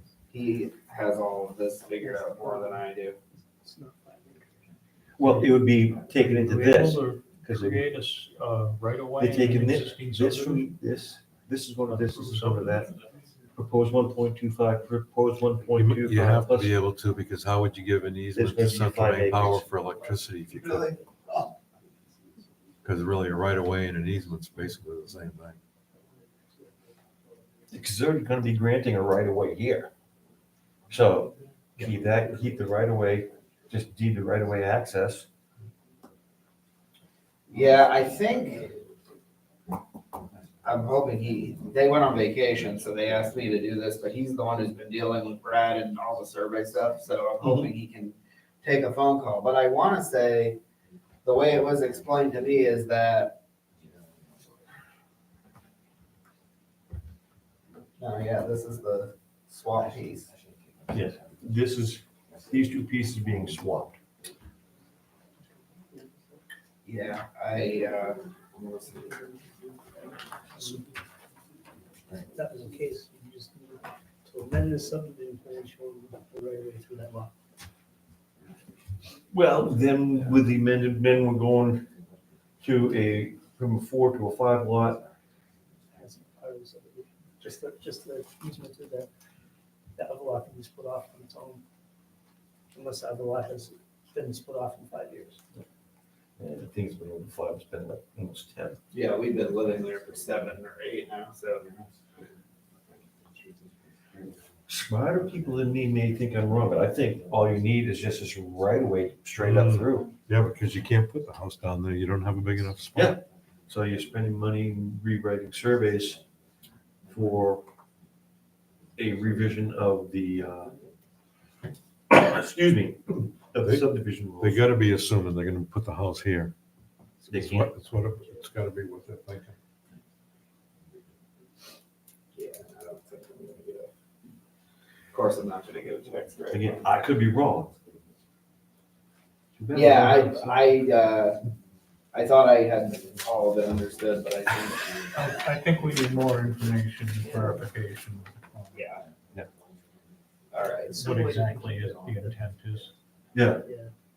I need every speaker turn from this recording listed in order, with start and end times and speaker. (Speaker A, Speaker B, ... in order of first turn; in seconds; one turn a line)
Speaker A: 0.3-3.2
Speaker B: 2.3-2.7
Speaker B: 3.6-4.5
Speaker C: 5.2-7.9
Speaker D: 6.2-10.6
Speaker C: 9.2-12.9
Speaker D: 11.9-12.7
Speaker C: 13.6-16.7
Speaker E: 15.8-20.9
Speaker C: 18.3-19.6
Speaker A: 20.6-20.9
Speaker E: 22.8-25.6
Speaker C: 27.7-29.9
Speaker C: 30.9-35.2
Speaker A: 37.5-38.8
Speaker A: 40.6-50.6
Speaker A: 51.2-53.4
Speaker A: 58.0-60.3
Speaker C: 60.9-63.9
Speaker A: 66.8-69.4
Speaker B: 72.3-77.3
Speaker C: 79.3-81.9
Speaker C: 82.6-85.0
Speaker B: 86.0-89.1
Speaker B: 90.0-91.6
Speaker B: 92.7-95.4
Speaker C: 96.4-98.8
Speaker A: 98.9-101.8
Speaker C: 104.7-110.1
Speaker E: 109.4-113.2
Speaker C: 112.9-116.2
Speaker C: 117.1-117.7
Speaker C: 119.0-120.7
Speaker C: 122.1-124.6
Speaker E: 124.4-126.5
Speaker E: 127.2-129.5
Speaker C: 127.3-127.7
Speaker A: 132.3-133.9
Speaker A: 135.1-136.8
Speaker C: 136.5-137.7
Speaker C: 139.6-140.7
Speaker A: 139.7-141.4
Speaker A: 142.1-145.5
Speaker D: 145.1-148.8
Speaker A: 148.7-149.0
Speaker A: 150.5-151.2
Speaker B: 150.8-152.4
Speaker D: 151.0-152.9
Speaker C: 153.3-153.6
Speaker B: 153.6-153.9